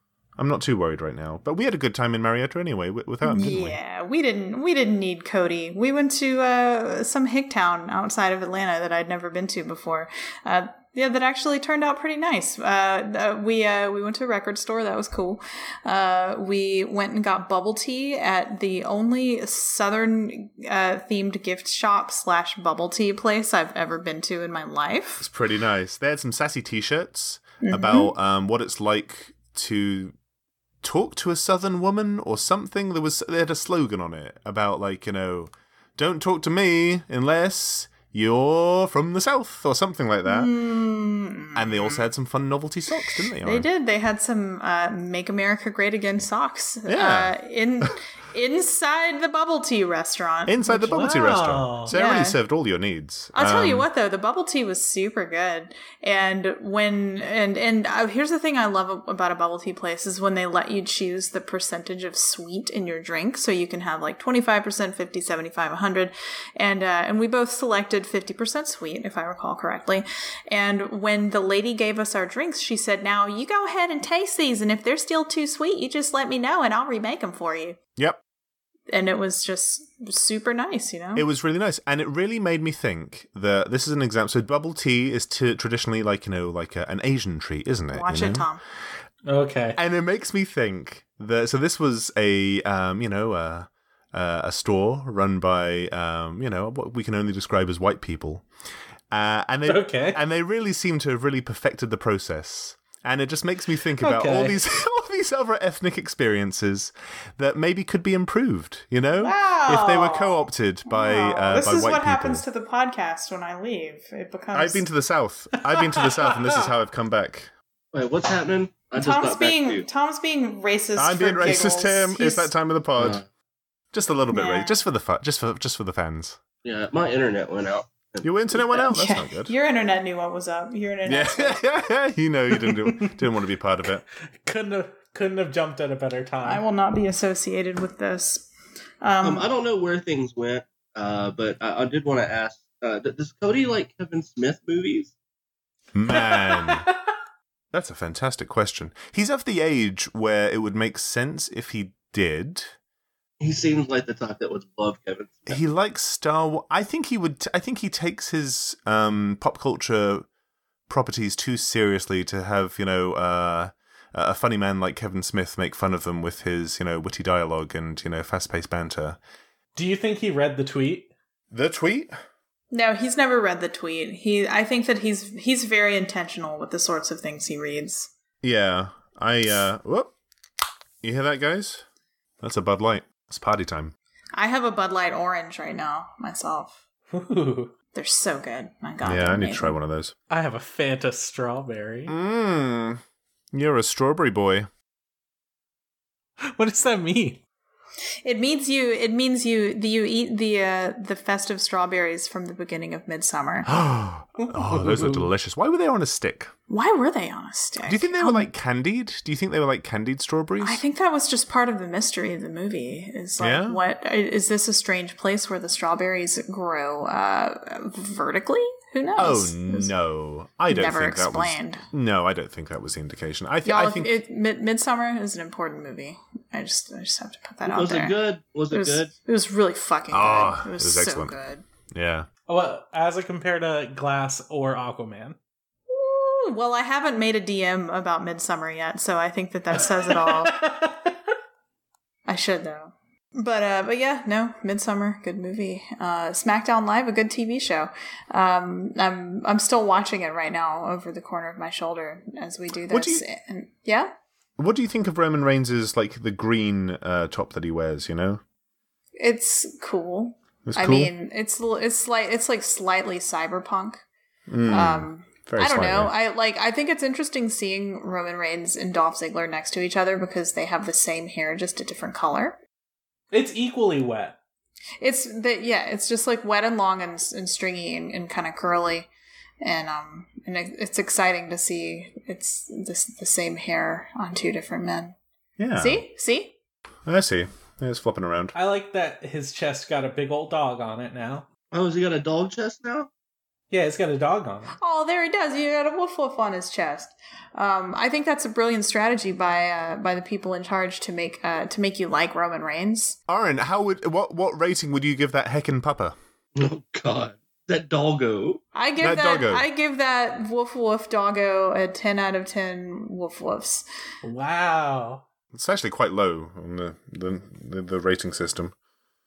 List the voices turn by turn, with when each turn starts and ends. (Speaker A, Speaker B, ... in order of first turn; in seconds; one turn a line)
Speaker A: 0.4-3.8
Speaker B: 3.2-25.3
Speaker A: 25.2-30.1
Speaker B: 27.6-28.1
Speaker A: 30.8-40.5
Speaker B: 40.2-42.1
Speaker A: 41.5-43.7
Speaker B: 43.4-50.6
Speaker A: 46.9-47.4
Speaker A: 50.5-53.9
Speaker C: 50.7-51.9
Speaker B: 51.9-52.4
Speaker B: 53.3-77.8
Speaker B: 78.9-81.3
Speaker A: 81.2-88.5
Speaker B: 87.9-88.6
Speaker C: 89.3-89.8
Speaker A: 89.8-98.5
Speaker A: 99.1-112.4
Speaker C: 99.7-100.2
Speaker C: 104.0-104.6
Speaker B: 109.2-114.8
Speaker A: 114.5-117.5
Speaker C: 115.7-116.6
Speaker D: 117.9-119.9
Speaker B: 119.0-122.5
Speaker A: 121.0-123.2
Speaker D: 123.0-123.2
Speaker A: 123.9-126.4
Speaker B: 124.3-124.8
Speaker D: 126.6-128.3
Speaker A: 128.2-129.5
Speaker B: 128.8-131.6
Speaker A: 131.1-134.0
Speaker C: 132.7-133.2
Speaker C: 134.4-136.6
Speaker B: 136.4-138.5
Speaker B: 139.0-139.5
Speaker D: 139.2-145.1
Speaker A: 145.9-146.9
Speaker C: 146.1-146.9
Speaker A: 147.7-152.8
Speaker D: 153.4-155.6
Speaker A: 155.5-160.3
Speaker A: 160.9-169.2
Speaker C: 169.8-171.1
Speaker A: 171.5-172.1
Speaker B: 172.7-178.1
Speaker A: 178.4-180.1
Speaker A: 181.0-181.8
Speaker A: 182.4-183.9
Speaker B: 184.3-186.8
Speaker C: 187.1-187.7
Speaker B: 187.9-189.8
Speaker A: 189.0-190.2
Speaker C: 190.3-192.1
Speaker A: 192.1-193.0
Speaker A: 193.5-194.7
Speaker C: 196.4-197.4
Speaker B: 198.2-203.7
Speaker A: 203.7-206.5
Speaker C: 204.4-205.2
Speaker B: 206.7-208.5
Speaker A: 207.9-210.8
Speaker B: 210.6-219.9
Speaker A: 213.4-213.8
Speaker A: 219.2-224.2
Speaker B: 220.7-221.8
Speaker B: 223.7-228.2
Speaker D: 227.7-229.1
Speaker B: 228.7-231.6
Speaker A: 230.1-231.4
Speaker A: 231.9-232.3
Speaker C: 232.5-235.4
Speaker B: 235.9-240.6
Speaker C: 240.1-241.1
Speaker B: 242.3-254.1
Speaker A: 252.9-253.2
Speaker A: 254.6-258.4
Speaker B: 259.2-264.0
Speaker A: 260.7-261.1
Speaker A: 264.5-266.1
Speaker B: 264.7-272.6
Speaker C: 273.3-274.4
Speaker B: 275.0-279.1
Speaker B: 279.6-285.1
Speaker A: 285.6-286.0
Speaker B: 285.8-286.5
Speaker A: 287.1-288.6
Speaker C: 288.5-291.5
Speaker D: 291.7-293.1
Speaker C: 293.7-294.7
Speaker B: 294.8-303.2
Speaker A: 303.3-306.2
Speaker D: 306.6-308.6
Speaker B: 308.8-313.9
Speaker A: 309.0-309.7
Speaker C: 314.2-315.2
Speaker A: 315.5-318.7